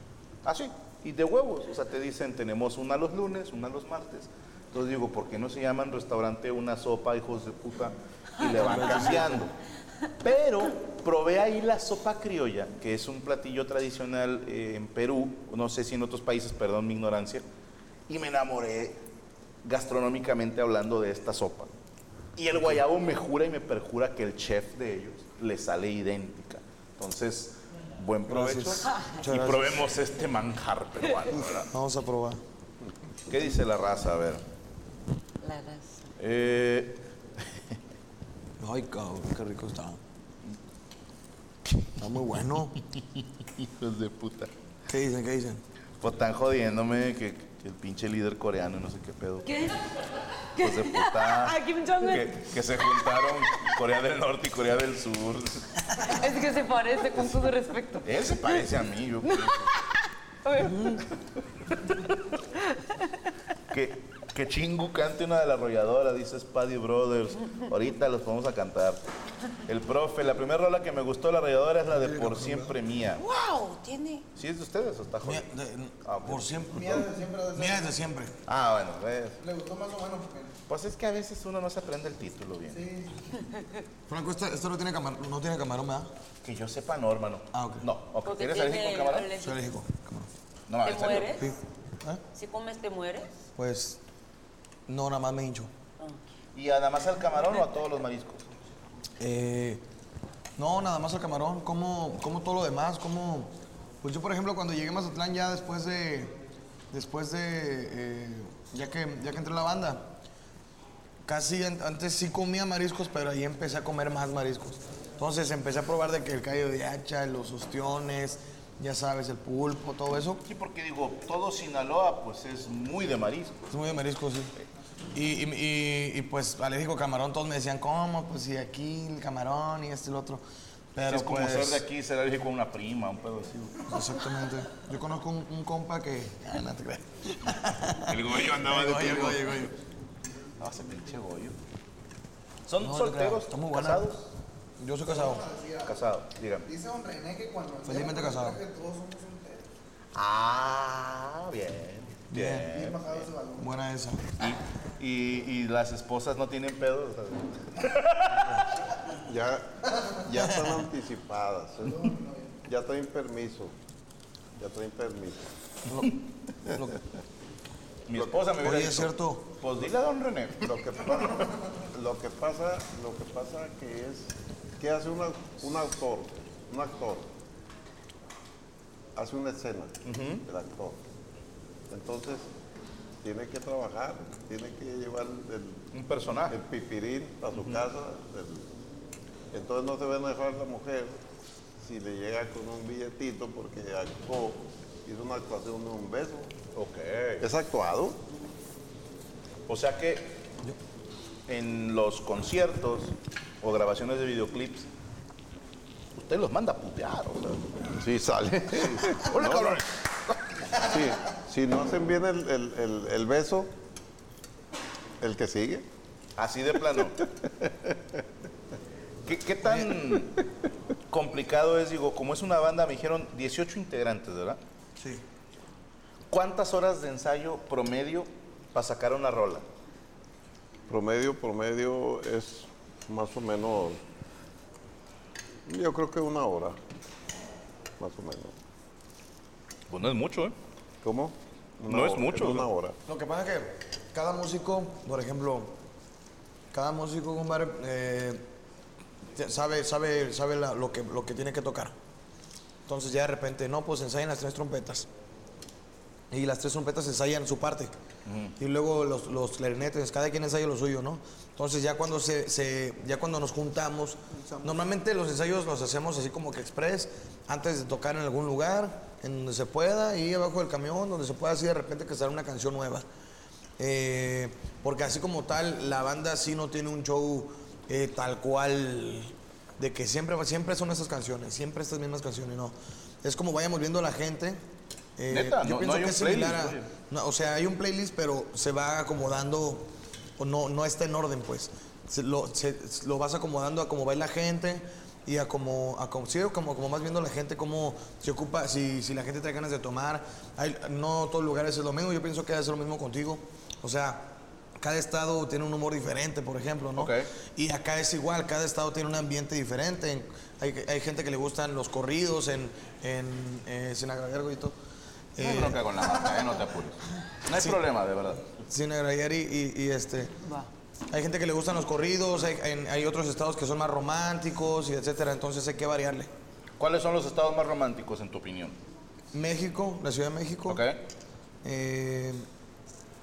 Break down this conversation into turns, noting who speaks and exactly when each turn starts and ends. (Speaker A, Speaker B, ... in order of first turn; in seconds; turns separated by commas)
Speaker A: 0.4-9.5, Speaker B: 8.4-9.5, Speaker A: 10.2-17.4, Speaker A: 18.1-19.0, Speaker A: 19.6-21.7, Speaker A: 22.4-31.7, Speaker B: 28.3-29.9, Speaker B: 31.6-32.4, Speaker A: 33.3-34.4, Speaker C: 35.4-36.1, Speaker A: 36.2-37.0, Speaker B: 38.6-40.0, Speaker B: 42.0-42.8, Speaker A: 43.4-44.5, Speaker B: 44.9-45.6, Speaker A: 46.0-49.5, Speaker C: 49.5-49.8, Speaker C: 50.5-52.5, Speaker A: 50.6-55.7, Speaker C: 56.0-58.6, Speaker A: 58.0-59.7, Speaker C: 59.2-59.8, Speaker C: 60.4-61.0, Speaker C: 62.6-63.0, Speaker A: 63.7-69.0, Speaker A: 69.6-73.2, Speaker B: 71.9-72.7, Speaker C: 73.2-74.2, Speaker A: 74.3-75.5, Speaker B: 75.2-78.3, Speaker A: 76.0-77.0, Speaker D: 76.7-77.9, Speaker A: 78.5-79.4, Speaker D: 79.4-80.5, Speaker A: 80.7-82.8, Speaker D: 82.7-83.1, Speaker B: 84.1-86.1, Speaker A: 86.4-89.3, Speaker B: 87.5-87.8, Speaker C: 88.2-89.6, Speaker B: 89.3-90.3, Speaker A: 90.7-91.4, Speaker C: 90.8-91.5, Speaker B: 91.4-92.2, Speaker C: 92.3-93.3, Speaker B: 93.5-94.0, Speaker B: 94.9-95.7, Speaker A: 96.5-98.5, Speaker B: 99.2-99.8, Speaker B: 100.6-103.5, Speaker B: 104.0-106.3, Speaker B: 106.9-110.1, Speaker B: 111.2-120.4, Speaker A: 120.4-123.5, Speaker B: 123.7-124.5, Speaker B: 125.1-130.4, Speaker B: 130.9-131.8, Speaker A: 131.1-133.9, Speaker B: 133.9-139.7, Speaker A: 138.1-139.6, Speaker A: 140.6-141.5, Speaker A: 142.7-144.3, Speaker B: 142.8-144.1, Speaker B: 144.8-145.4, Speaker D: 145.1-146.0, Speaker A: 145.8-146.7, Speaker D: 146.7-149.7, Speaker B: 147.8-148.6, Speaker A: 150.1-153.3, Speaker B: 152.3-152.7, Speaker D: 152.6-153.7, Speaker B: 153.6-154.2, Speaker A: 154.4-158.6, Speaker E: 159.1-163.7, Speaker D: 161.9-162.5, Speaker E: 164.6-165.5, Speaker B: 165.8-167.0, Speaker A: 168.1-170.8, Speaker B: 168.6-169.4, Speaker E: 170.6-177.3, Speaker E: 179.1-181.0, Speaker A: 180.0-180.4, Speaker E: 181.9-182.5, Speaker E: 183.2-185.9, Speaker A: 185.9-186.6, Speaker E: 186.5-188.7, Speaker E: 189.5-191.2, Speaker E: 191.8-196.5, Speaker A: 196.7-197.4, Speaker E: 197.4-198.2, Speaker A: 199.7-200.4, Speaker A: 201.5-204.9, Speaker A: 206.1-207.6, Speaker E: 208.0-209.8, Speaker A: 208.6-210.7, Speaker E: 210.7-213.7, Speaker E: 215.2-215.8, Speaker A: 216.4-217.2, Speaker E: 217.0-218.2, Speaker A: 219.2-220.4, Speaker A: 221.1-224.6, Speaker A: 226.3-229.6, Speaker E: 230.9-234.0, Speaker E: 235.7-236.8, Speaker E: 238.0-238.5, Speaker A: 239.9-240.6, Speaker E: 241.0-242.9, Speaker A: 241.8-242.7, Speaker B: 243.1-245.7, Speaker B: 246.7-248.4, Speaker B: 249.3-251.9, Speaker B: 252.9-255.1, Speaker B: 256.3-257.9, Speaker A: 258.2-258.6, Speaker B: 258.6-273.0, Speaker B: 273.8-284.6, Speaker B: 285.2-314.8, Speaker A: 285.3-286.9, Speaker A: 306.9-307.3, Speaker B: 315.4-316.5, Speaker A: 315.4-318.5, Speaker B: 317.5-317.8, Speaker B: 318.6-320.3, Speaker B: 321.1-326.3, Speaker A: 326.8-328.8, Speaker B: 329.3-330.8, Speaker A: 330.7-331.0, Speaker B: 331.6-332.4